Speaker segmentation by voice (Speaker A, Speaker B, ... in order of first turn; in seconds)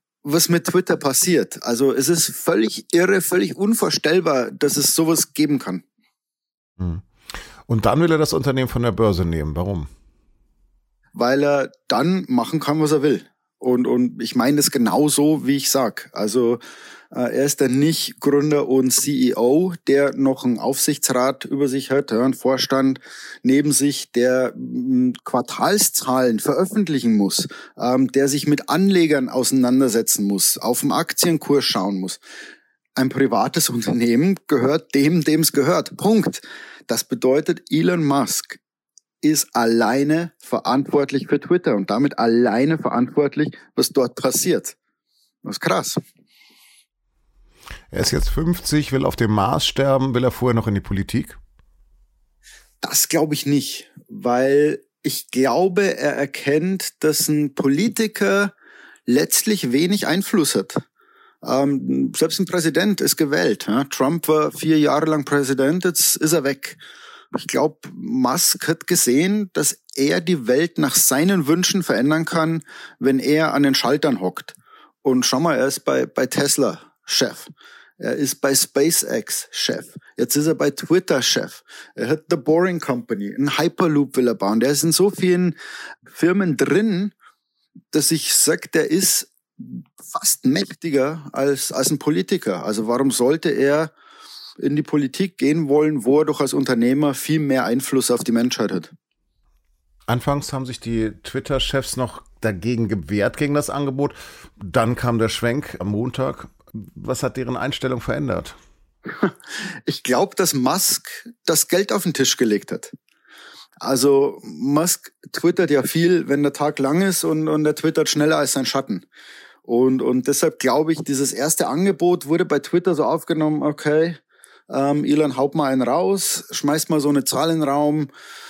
Speaker A: 0.2-5.8, 11.1-16.6, 17.1-32.2, 33.0-38.6, 39.2-44.7, 45.4-46.0, 52.8-58.5, 59.1-60.8, 61.4-66.8, 67.3-85.5, 86.1-87.1, 87.9-93.9, 94.6-98.9, 109.8-112.9, 113.8-119.0, 119.6-128.1
Speaker B: 6.8-7.0, 7.7-9.9, 47.9-51.4, 100.1-108.6